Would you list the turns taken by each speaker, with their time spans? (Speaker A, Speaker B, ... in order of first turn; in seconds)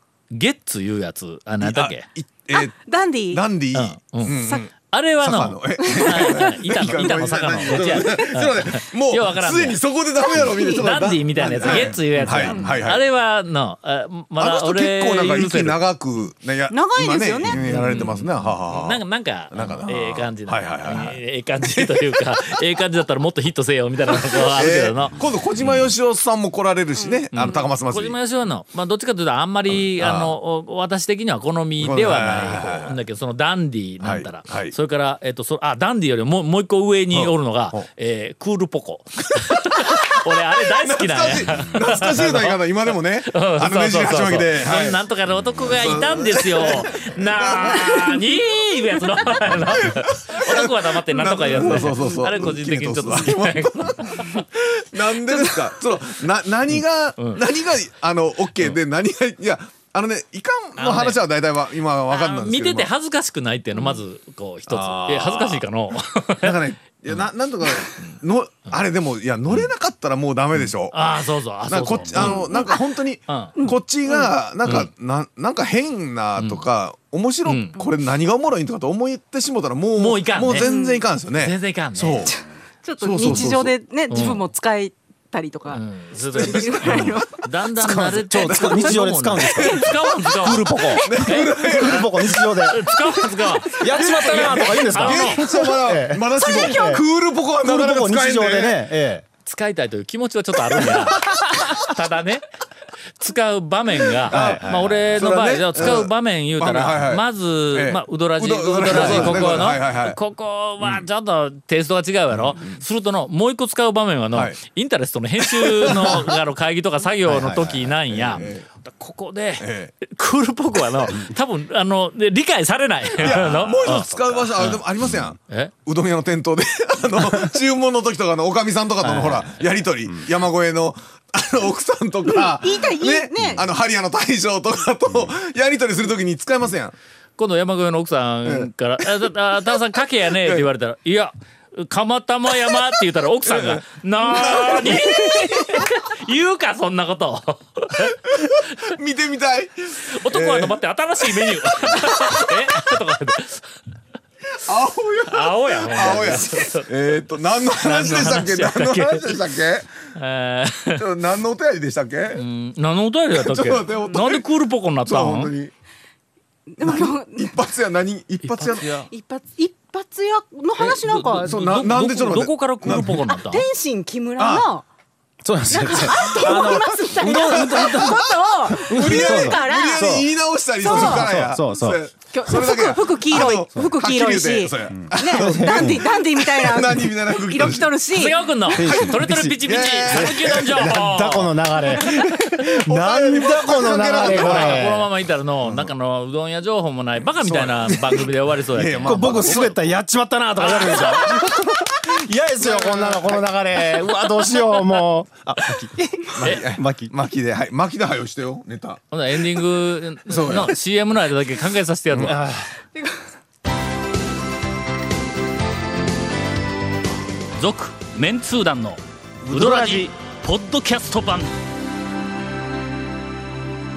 Speaker A: 0.3-2.1, 3.7-9.8, 10.4-15.8, 17.4-25.9, 27.3-42.6, 43.2-54.4, 57.2-57.4, 60.8-61.2, 62.1-66.6, 70.9-72.6, 73.3-73.6, 76.4-76.7, 77.5-77.8, 80.0-80.7, 81.4-82.3, 83.2-83.5, 84.1-84.5, 85.7-91.5, 92.7-95.4, 99.5-102.4, 103.2-124.8, 137.4-148.9, 150.1-153.7, 155.3-156.9, 157.6-159.4, 160.2-161.0, 162.3-165.5, 168.4-169.1, 170.8-173.7, 188.1-191.8, 194.2-199.8, 200.6-201.2, 209.1-212.4, 217.6-221.5
Speaker B: 1.6-13.0, 14.4-19.0, 19.5-22.1, 24.4-28.2, 29.7-30.4, 31.8-33.0, 34.0-34.8, 37.1-37.9, 39.7-45.0, 45.6-48.2, 49.4-62.9, 64.7-65.6, 66.4-71.1, 71.7-82.4, 83.0-83.8, 86.4-87.2, 88.3-90.0, 90.9-92.6, 93.7-98.8, 100.8-101.4, 104.2-110.2, 110.8-111.1, 112.3-112.8, 115.4-116.3, 118.1-118.7, 119.6-119.9, 123.2-136.9, 138.5-139.3, 140.4-140.7, 143.5-145.8, 148.3-150.8, 151.3-152.6, 154.6-159.9, 160.9-162.4, 163.4-164.4, 165.1-165.7, 166.8-168.9, 171.4-173.3, 174.4-174.7, 175.8-188.0, 188.8-190.9, 192.2-195.1, 195.6-195.9, 197.4-198.0, 198.7-199.7, 206.3-209.0, 210.3-210.8, 219.5-220.0
Speaker C: 2.9-3.4, 16.7-17.6, 80.6-81.0, 82.8-85.8, 86.4-87.3, 132.7-133.6, 166.8-167.4, 169.2-171.4, 173.5-174.8, 175.9-180.1, 180.9-181.2, 182.4-186.9, 187.5-188.3
Speaker D: 87.8-89.8, 90.4-92.9, 93.8-97.0, 97.6-99.2, 104.3-105.2, 108.9-109.6, 117.3-117.8, 175.4-180.3, 180.8-182.0, 184.9-186.0, 188.7-195.1, 199.0-207.1, 212.2-212.7